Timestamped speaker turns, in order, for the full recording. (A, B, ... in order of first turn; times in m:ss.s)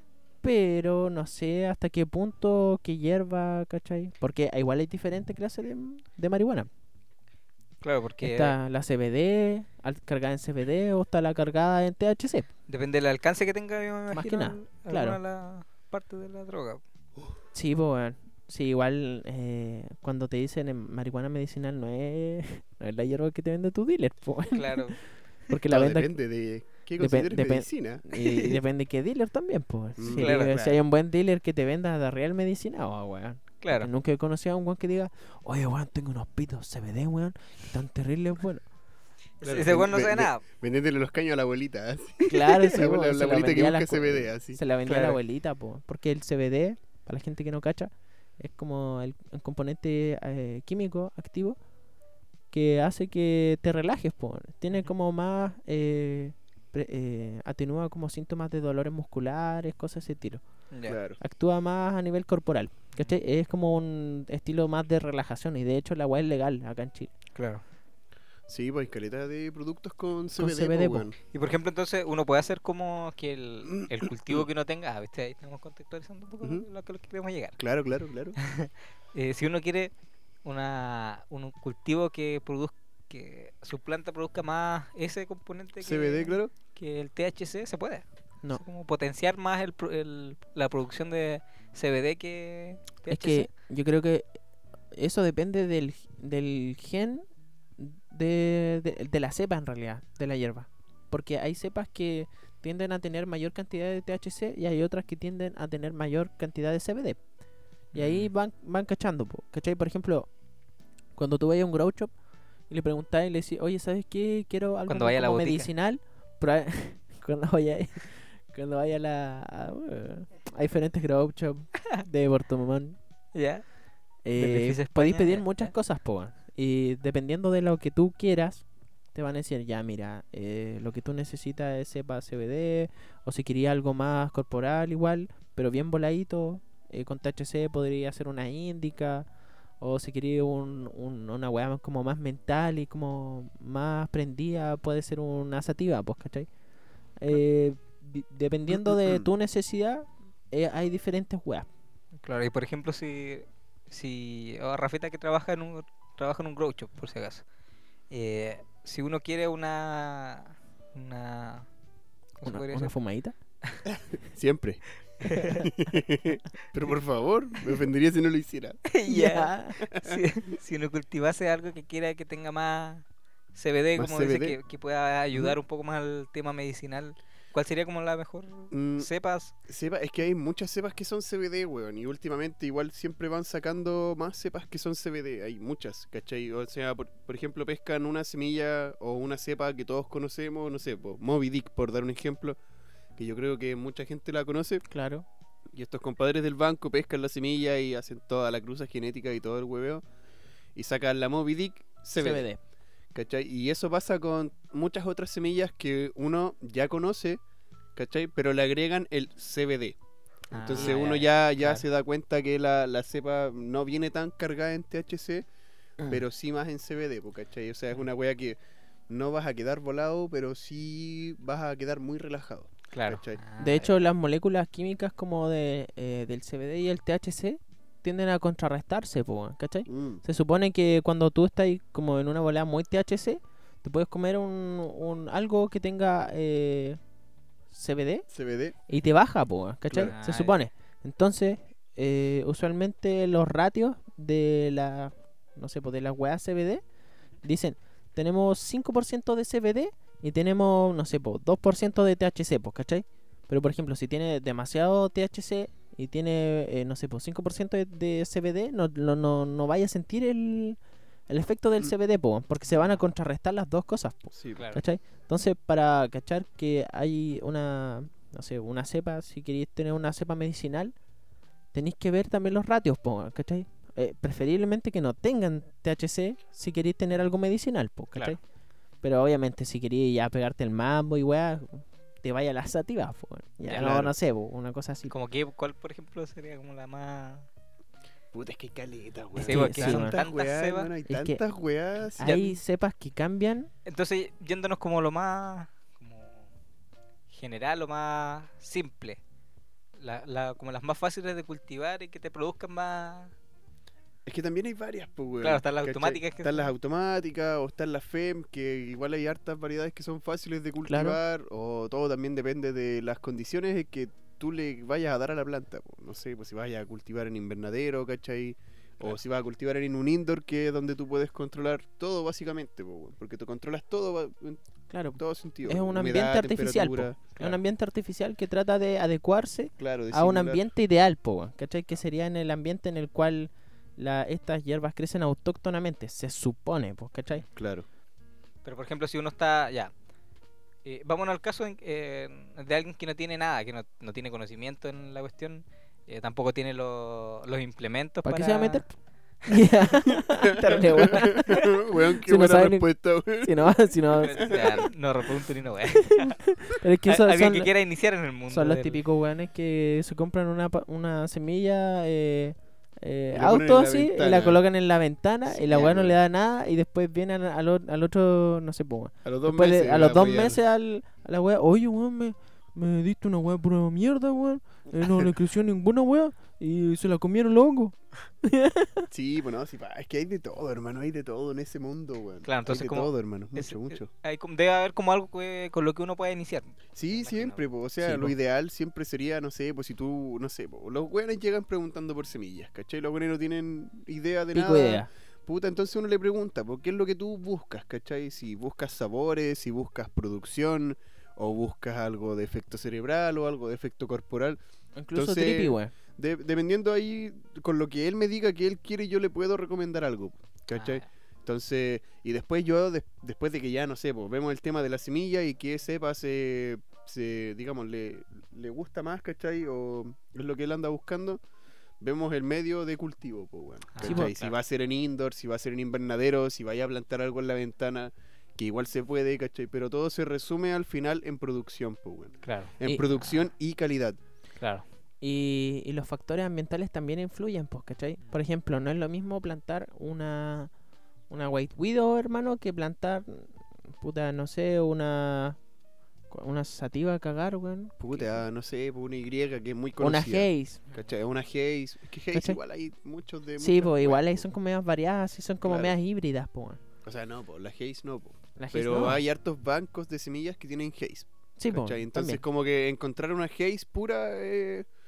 0:00.4-0:06.7 A
0:07.8-0:08.6 B
0:08.2-0:12.5 A
0:12.7-0:16.8 B
0:14.1-0:15.2 A
0:17.5-0:25.0 A
0:24.5-0:25.0 B
0:25.5-0:26.1 A
0:25.7-0:28.0 C
0:27.0-0:38.6 A
0:28.2-0:28.5 B
0:30.0-0:30.6 C
0:30.2-0:30.8 B
0:33.6-0:33.9 B
0:39.4-0:40.4 B
0:39.4-0:44.6 C
0:42.3-0:51.6 A
0:44.8-0:45.2 B
0:52.5-1:00.4 A
1:00.7-1:01.0 B
1:00.9-1:01.2 C
1:01.2-1:07.1 A
1:07.3-1:07.6 B
1:08.5-1:11.1 C
1:10.4-1:11.1 A
1:11.3-1:17.6 B
1:13.8-1:14.1 C
1:17.6-1:18.4 C
1:18.4-1:19.9 B
1:20.4-1:33.5 B
1:25.8-1:26.5 C
1:33.1-1:34.2 A
1:34.9-1:37.2 A
1:37.8-1:47.2 A
1:47.9-1:50.3 A
1:47.9-1:48.3 B
1:51.2-1:52.1 A
1:52.7-2:03.0 A
1:54.9-1:55.7 B
2:03.3-2:03.6 B
2:04.2-2:19.3 A
2:04.4-2:05.7 B
2:19.8-2:26.5 A
2:27.2-2:31.7 A
2:28.7-2:29.2 C
2:32.2-2:37.4 B
2:38.1-2:41.7 B
2:42.4-2:42.9 B
2:42.4-2:43.4 A
2:43.9-2:44.8 C
2:45.2-2:45.7 B
2:45.6-2:48.8 C
2:48.9-2:59.5 B
2:49.1-2:49.8 A
2:49.8-2:50.2 C
2:54.0-2:54.6 C
2:58.7-2:59.1 C
2:59.7-3:12.6 C
3:13.2-3:14.8 C
3:14.9-3:15.2 A
3:15.7-3:20.0 C
3:20.7-3:22.5 C
3:22.1-3:22.6 A
3:23.1-3:27.4 C
3:28.0-3:30.0 C
3:30.5-3:31.8 B
3:30.5-3:35.4 C
3:30.8-3:31.1 A
3:36.0-3:38.6 C
3:39.1-3:43.4 C
3:42.9-3:43.9 B
3:43.6-3:57.0 A
3:49.9-3:50.2 C
3:57.7-3:58.2 A
3:58.3-3:58.8 C
3:58.9-4:06.8 A
4:00.0-4:00.6 B
4:07.4-4:30.9 A
4:24.3-4:24.6 C
4:31.7-4:38.4 A
4:39.0-4:45.1 A
4:43.6-4:43.9 B
4:43.7-4:44.1 C
4:45.1-4:47.5 B
4:48.3-4:52.4 C
4:49.4-4:50.2 A
4:49.4-4:50.9 B
4:51.1-4:51.4 A
4:52.2-4:53.7 A
4:52.2-4:52.5 B
4:53.8-4:56.5 B
4:57.3-4:59.2 B
5:00.0-5:03.3 B
5:04.2-5:24.6 C
5:05.4-5:06.7 B
5:10.9-5:11.2 A
5:24.9-5:37.4 A
5:25.2-5:27.4 C
5:29.8-5:30.6 C
5:37.5-5:37.8 C
5:38.6-5:39.9 B
5:40.8-5:48.8 B
5:48.2-5:48.9 A
5:49.4-5:54.8 A
5:50.4-5:53.8 C
5:54.2-5:56.4 B
5:54.3-5:54.8 C
5:56.0-5:57.7 A
5:57.0-5:59.0 B
5:58.5-6:19.1 A
6:03.3-6:04.6 C
6:05.5-6:06.2 C
6:09.2-6:10.6 C
6:15.0-6:15.3 C
6:19.1-6:24.1 C
6:22.4-6:27.6 B
6:27.0-6:44.6 C
6:28.0-6:28.3 A
6:34.5-6:35.1 A
6:45.0-6:45.9 A
6:45.1-7:01.4 C
6:50.7-6:51.0 B
7:02.0-7:14.2 C
7:03.9-7:04.5 B
7:04.0-7:04.3 A
7:12.4-7:12.7 B
7:12.8-7:13.2 A
7:14.6-7:14.8 B
7:15.2-7:20.7 A
7:21.3-7:25.6 A
7:26.3-7:28.4 A
7:28.0-7:34.5 C
7:30.0-7:30.8 A
7:32.3-7:32.6 A
7:33.6-7:36.8 A
7:35.6-7:35.9 C
7:37.0-7:44.8 C
7:38.6-7:39.2 A
7:41.6-7:42.4 A